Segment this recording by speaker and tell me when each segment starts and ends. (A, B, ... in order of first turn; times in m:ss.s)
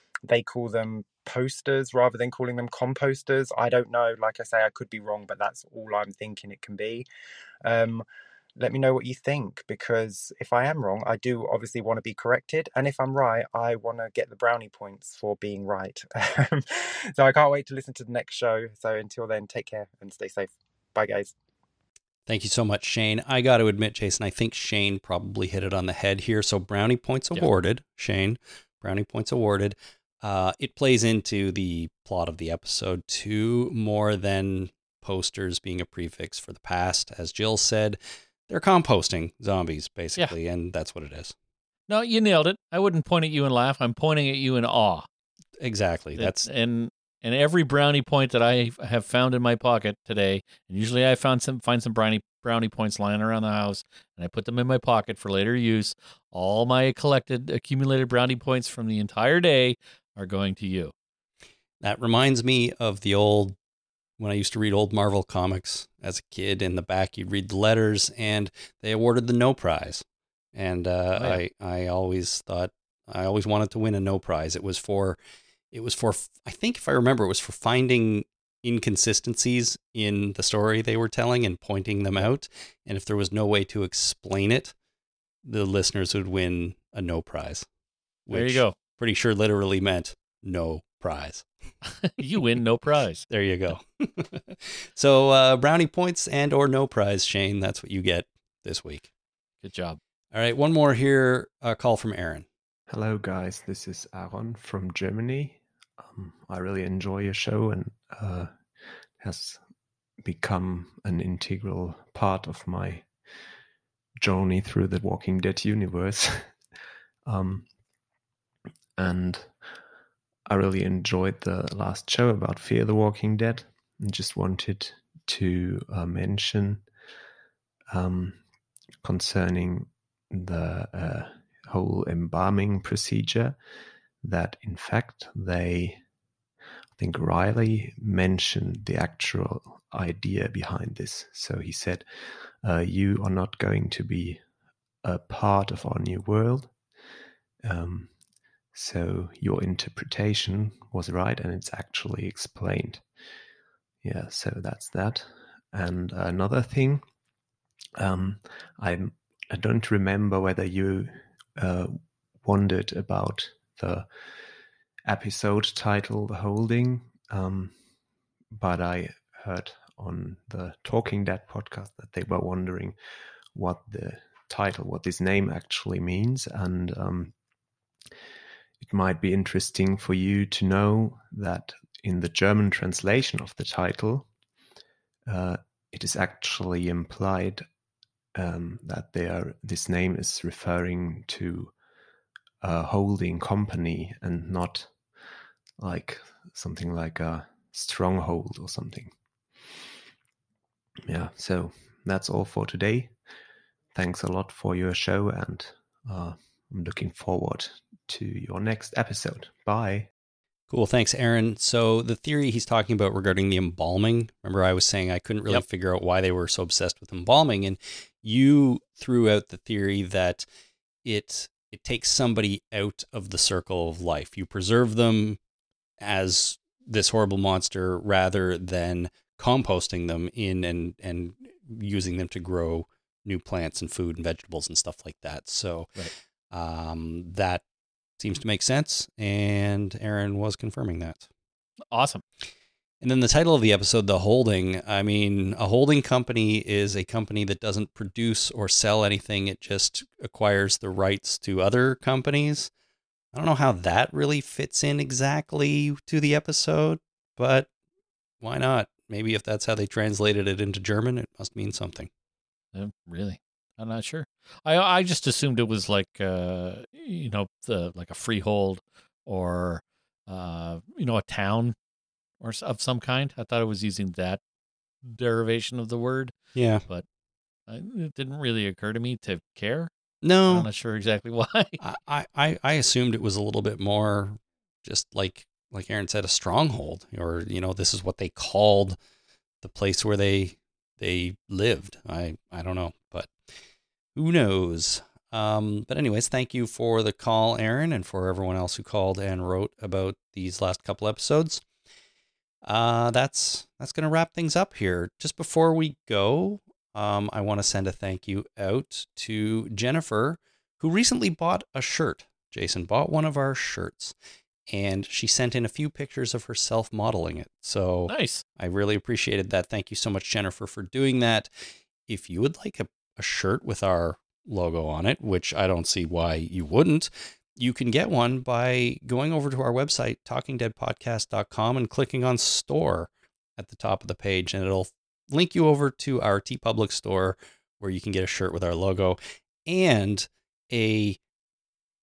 0:00.3-0:07.1 A
0:07.6-0:08.0 A
0:08.6-0:16.6 A
0:17.2-0:21.3 A
0:22.3-0:41.4 B
0:41.9-0:45.1 C
0:45.6-0:46.5 B
0:46.2-1:00.9 C
1:01.8-1:03.6 B
1:04.2-1:15.2 B
1:15.7-1:24.7 B
1:25.4-1:27.7 B
1:28.3-1:31.5 B
1:28.3-1:28.8 C
1:32.0-1:33.2 C
1:33.3-1:39.1 B
1:39.6-1:40.0 C
1:40.3-1:42.5 B
1:42.9-1:48.6 D
1:49.2-1:49.6 D
1:50.2-1:53.1 D
1:54.2-1:56.5 D
1:57.2-1:57.7 D
1:59.0-1:59.6 D
2:00.5-2:06.9 D
2:07.9-2:08.4 D
2:09.0-2:13.6 D
2:14.2-2:16.0 D
2:17.0-2:22.1 D
2:22.6-2:24.4 D
2:25.0-2:26.7 D
2:27.6-2:28.1 D
2:28.7-2:33.0 D
2:34.0-2:37.0 D
2:38.0-2:44.1 D
2:45.1-2:47.8 D
2:48.5-2:53.0 D
2:53.6-2:57.4 D
2:58.8-3:04.3 D
3:05.3-3:07.6 D
3:08.4-3:11.7 D
3:12.6-3:14.9 D
3:15.8-3:19.1 D
3:21.1-3:23.1 D
3:23.9-3:30.1 D
3:30.7-3:40.4 B
3:41.0-3:45.4 B
3:46.0-3:56.0 B
3:56.5-3:57.6 B
3:58.2-4:01.3 B
4:01.9-4:02.2 C
4:03.0-4:12.7 B
4:13.3-4:17.7 B
4:18.4-4:22.1 B
4:22.7-4:31.8 C
4:32.4-4:34.4 C
4:35.0-4:36.3 C
4:36.6-4:36.8 B
4:37.7-4:39.9 C
4:40.2-4:40.7 B
4:40.5-4:41.8 C
4:41.8-4:49.0 B
4:49.6-4:53.3 B
4:54.2-5:01.6 B
5:02.6-5:14.2 B
5:14.7-5:21.5 B
5:18.1-5:18.4 C
5:22.1-5:41.2 B